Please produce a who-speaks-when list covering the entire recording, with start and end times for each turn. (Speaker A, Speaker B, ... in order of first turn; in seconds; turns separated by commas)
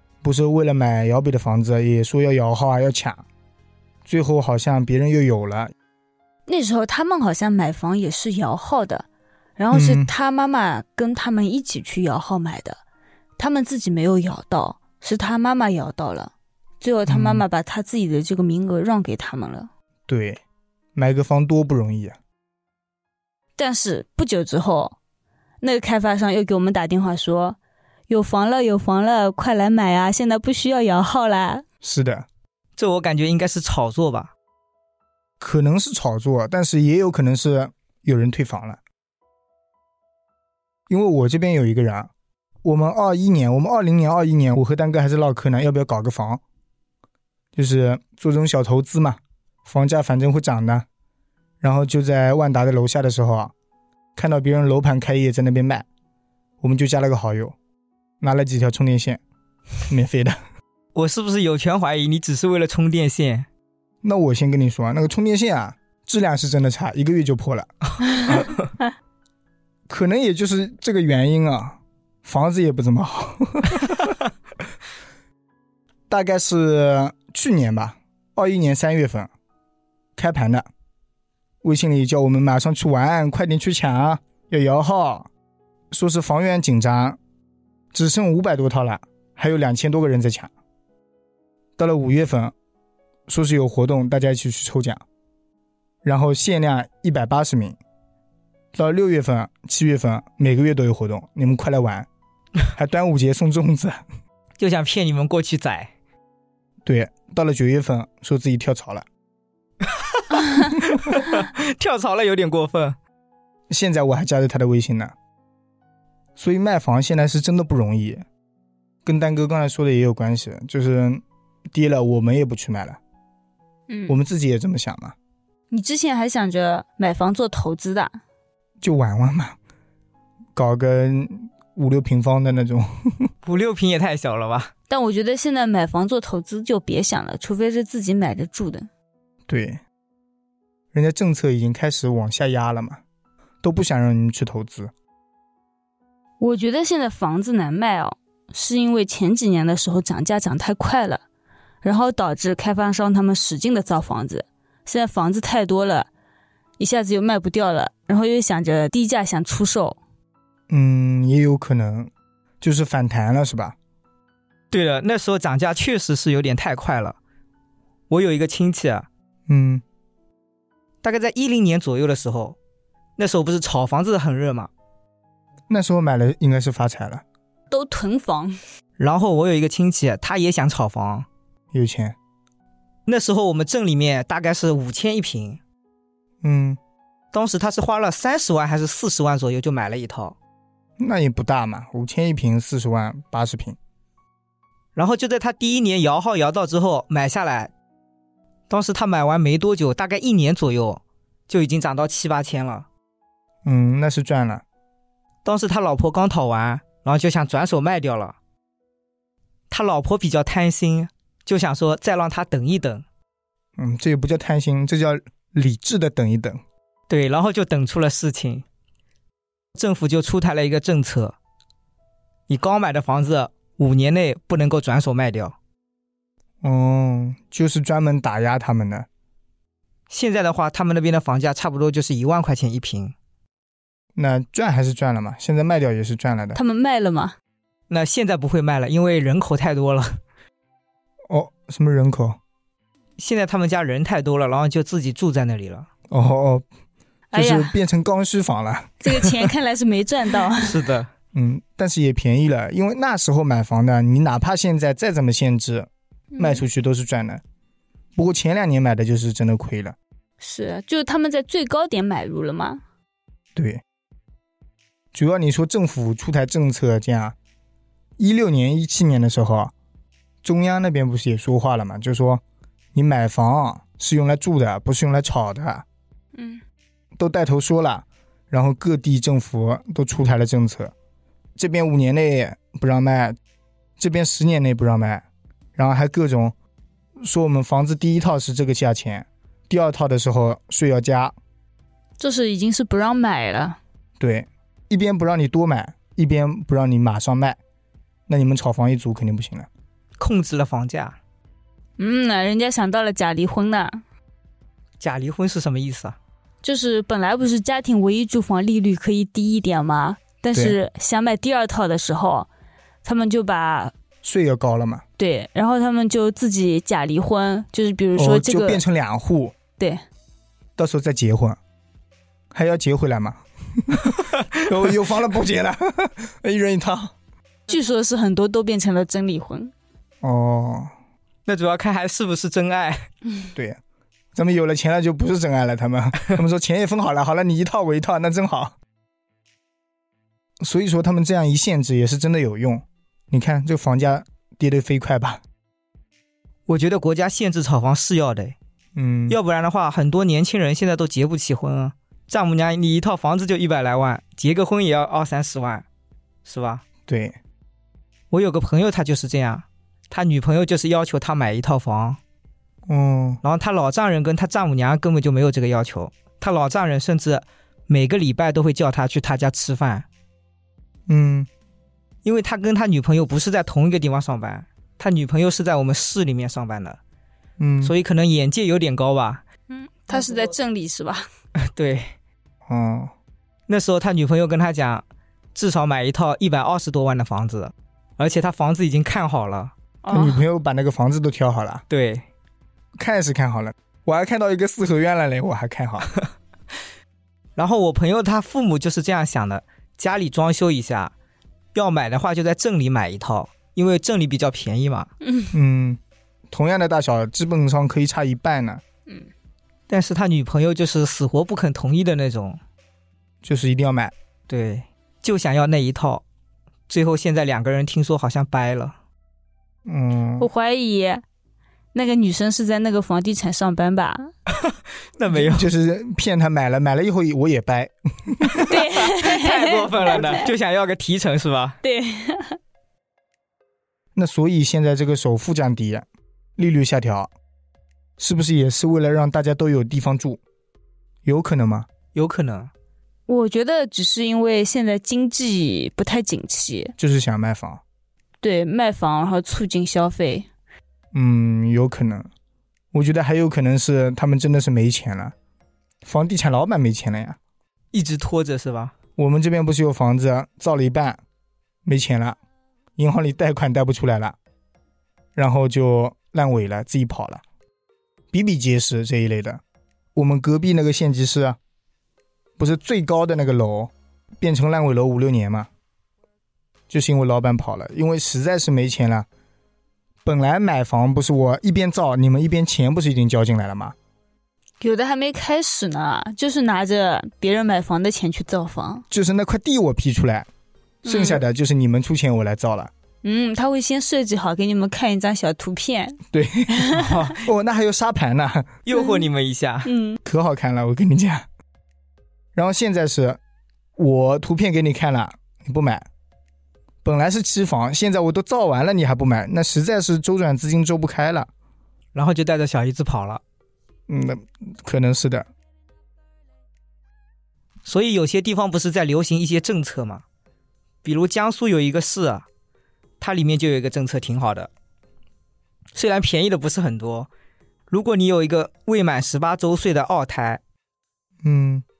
Speaker A: 0.2-3.2, Speaker A: 4.0-5.7, Speaker B: 6.5-9.1, Speaker B: 9.6-12.8, Speaker A: 9.7-10.1, Speaker B: 13.4-19.7, Speaker A: 17.1-17.4, Speaker A: 20.1-20.4, Speaker A: 20.9-22.2, Speaker B: 23.6-25.0, Speaker B: 25.6-27.6, Speaker B: 28.1-31.6, Speaker A: 31.8-32.2, Speaker C: 32.8-34.3, Speaker A: 35.4-38.8, Speaker A: 40.9-42.1, Speaker A: 42.6-46.4, Speaker A: 47.5-50.9, Speaker A: 51.6-53.5, Speaker A: 54.1-55.9, Speaker A: 56.6-57.5, Speaker A: 58.2-59.2, Speaker A: 59.9-60.4, Speaker C: 61.0-63.5, Speaker A: 64.0-67.7, Speaker A: 69.9-74.2, Speaker A: 76.1-79.3, Speaker A: 80.2-80.7, Speaker A: 81.6-85.3, Speaker A: 85.9-87.2, Speaker A: 87.9-90.5, Speaker A: 91.8-92.5, Speaker A: 93.3-95.0, Speaker A: 96.0-97.8, Speaker A: 98.7-102.1, Speaker A: 102.7-104.0, Speaker C: 104.6-105.9, Speaker A: 106.8-109.1, Speaker C: 109.8-113.0, Speaker A: 113.7-115.1, Speaker A: 116.4-118.2, Speaker A: 119.0-123.0, Speaker B: 123.9-124.2, Speaker A: 124.1-125.1, Speaker B: 125.7-128.2, Speaker A: 128.8-129.6, Speaker A: 130.5-133.3, Speaker C: 133.4-134.7, Speaker B: 134.9-138.9, Speaker A: 139.5-139.8, Speaker A: 140.9-143.0, Speaker A: 143.6-144.9, Speaker B: 146.4-151.2, Speaker B: 151.8-156.1, Speaker B: 156.8-160.0, Speaker A: 160.7-162.1, Speaker A: 162.6-163.8, Speaker C: 164.7-167.2, Speaker C: 168.1-169.1, Speaker A: 169.5-169.8, Speaker C: 171.0-172.6, Speaker C: 173.2-174.7, Speaker A: 175.7-177.2, Speaker B: 177.7-178.6, Speaker C: 179.0-181.3, Speaker A: 181.7-182.2, Speaker C: 183.1-185.6, Speaker A: 186.4-186.8, Speaker C: 187.3-190.4, Speaker A: 191.0-193.8, Speaker C: 195.0-197.7, Speaker C: 198.7-202.9, Speaker A: 203.6-204.6, Speaker C: 205.4-208.4, Speaker C: 209.7-213.0, Speaker A: 213.8-216.6, Speaker C: 217.1-218.6, Speaker C: 219.8-221.3, Speaker C: 222.5-225.5, Speaker A: 226.6-229.1, Speaker C: 230.1-233.1, Speaker A: 234.2-236.6, Speaker B: 236.5-237.4, Speaker C: 237.9-240.2, Speaker A: 241.3-242.4, Speaker C: 243.2-245.9, Speaker A: 246.1-246.6, Speaker B: 247.3-247.7, Speaker A: 247.3-249.3, Speaker B: 249.0-250.8, Speaker C: 250.6-251.1, Speaker A: 251.3-257.4, Speaker B: 256.3-256.6, Speaker A: 258.1-260.0, Speaker B: 260.4-262.8, Speaker A: 263.5-263.8, Speaker A: 265.1-267.4, Speaker A: 268.2-269.7, Speaker A: 270.4-272.4, Speaker A: 272.9-275.8, Speaker B: 276.4-276.6, Speaker A: 277.1-280.9, Speaker A: 281.6-283.4, Speaker A: 284.0-285.2, Speaker A: 285.8-286.5, Speaker A: 287.2-291.4, Speaker B: 292.2-293.8, Speaker A: 294.2-297.6, Speaker A: 298.3-299.7, Speaker C: 300.2-301.2, Speaker B: 302.0-304.0, Speaker C: 305.0-306.1, Speaker B: 306.6-312.5, Speaker B: 313.0-313.9, Speaker A: 314.2-315.0, Speaker B: 315.2-318.8, Speaker A: 318.1-319.5, Speaker A: 320.8-321.6, Speaker A: 322.5-327.1, Speaker B: 327.7-329.7, Speaker A: 330.2-330.9, Speaker C: 331.5-333.1, Speaker A: 333.5-333.8, Speaker A: 334.4-338.7, Speaker A: 340.6-345.4, Speaker C: 346.7-348.6, Speaker A: 348.9-349.4, Speaker C: 349.3-355.8, Speaker C: 356.4-356.9, Speaker A: 357.1-357.4, Speaker C: 358.3-362.2, Speaker A: 362.9-363.4, Speaker C: 363.4-370.1, Speaker A: 371.1-371.5, Speaker C: 372.2-377.0, Speaker A: 377.6-377.9, Speaker C: 377.8-379.4, Speaker B: 379.7-381.2, Speaker C: 381.6-382.1, Speaker A: 382.7-383.1, Speaker C: 383.7-385.0, Speaker C: 385.6-389.7, Speaker B: 390.0-390.4, Speaker A: 390.1-391.8, Speaker C: 391.9-392.2, Speaker A: 392.9-396.1, Speaker C: 397.6-401.1, Speaker C: 401.7-405.1, Speaker B: 405.2-405.5, Speaker A: 405.5-406.0, Speaker A: 406.5-408.8, Speaker C: 409.9-412.6, Speaker A: 413.4-414.1, Speaker C: 414.5-416.2, Speaker C: 416.9-418.9, Speaker A: 419.9-420.5, Speaker B: 420.4-421.2, Speaker B: 421.9-424.3, Speaker C: 424.5-425.7, Speaker A: 425.3-428.7, Speaker C: 428.5-431.8, Speaker B: 428.6-430.5, Speaker B: 431.8-432.6, Speaker A: 434.1-436.1, Speaker A: 436.6-437.3, Speaker A: 438.2-440.4, Speaker A: 441.2-441.9, Speaker C: 442.1-442.7, Speaker B: 443.3-446.9, Speaker A: 447.0-447.8, Speaker B: 448.4-450.5, Speaker A: 451.1-452.3, Speaker A: 452.9-455.3, Speaker A: 456.0-457.4, Speaker C: 457.9-458.9, Speaker A: 459.2-461.2, Speaker A: 461.9-462.4, Speaker A: 463.0-464.4, Speaker A: 465.4-467.4, Speaker A: 468.3-469.6, Speaker A: 470.1-471.6, Speaker A: 472.6-475.7, Speaker A: 476.9-479.3, Speaker A: 480.2-483.9, Speaker B: 484.8-489.1, Speaker A: 489.1-490.5, Speaker B: 491.1-491.4, Speaker A: 491.1-492.9, Speaker B: 493.2-496.2, Speaker A: 496.3-498.8, Speaker B: 496.7-497.2, Speaker C: 496.9-497.4, Speaker C: 498.9-499.9, Speaker B: 498.9-499.2, Speaker B: 499.9-500.2, Speaker A: 500.2-501.4, Speaker A: 502.6-503.4, Speaker A: 504.0-506.1, Speaker A: 507.0-511.5, Speaker C: 512.1-513.4, Speaker A: 514.1-515.5, Speaker C: 517.9-520.2, Speaker C: 521.0-522.4, Speaker C: 523.2-524.7, Speaker C: 525.9-527.3, Speaker C: 527.9-530.6, Speaker A: 531.4-531.8